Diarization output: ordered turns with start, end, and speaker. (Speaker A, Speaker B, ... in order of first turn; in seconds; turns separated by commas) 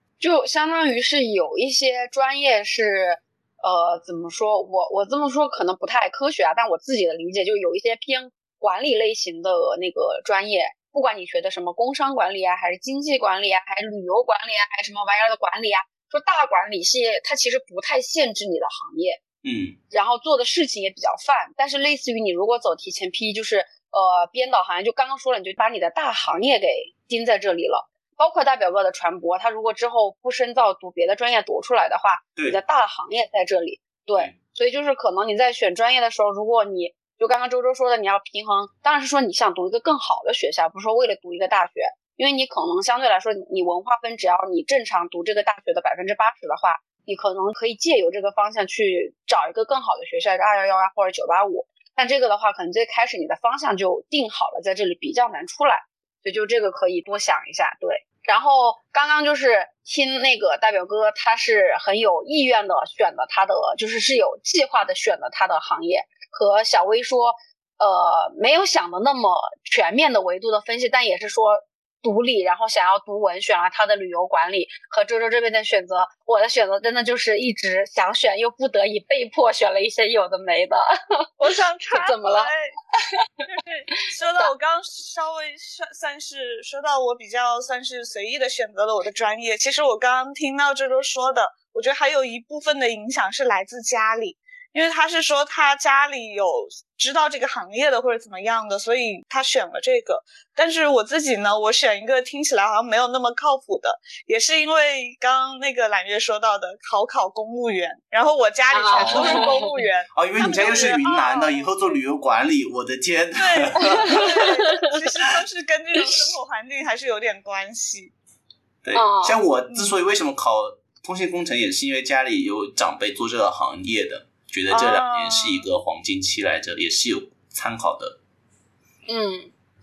Speaker A: 0.2-19.2, Speaker B: 19.4-19.8, Speaker A: 19.9-81.3, Speaker B: 32.4-32.6, Speaker C: 81.4-82.8, Speaker A: 81.9-82.5, Speaker C: 83.5-112.0, Speaker A: 108.7-109.7, Speaker B: 108.9-114.5, Speaker C: 113.4-118.1, Speaker B: 118.8-128.2, Speaker A: 118.9-119.4, Speaker C: 119.7-120.0, Speaker C: 124.7-125.6, Speaker A: 129.1-129.5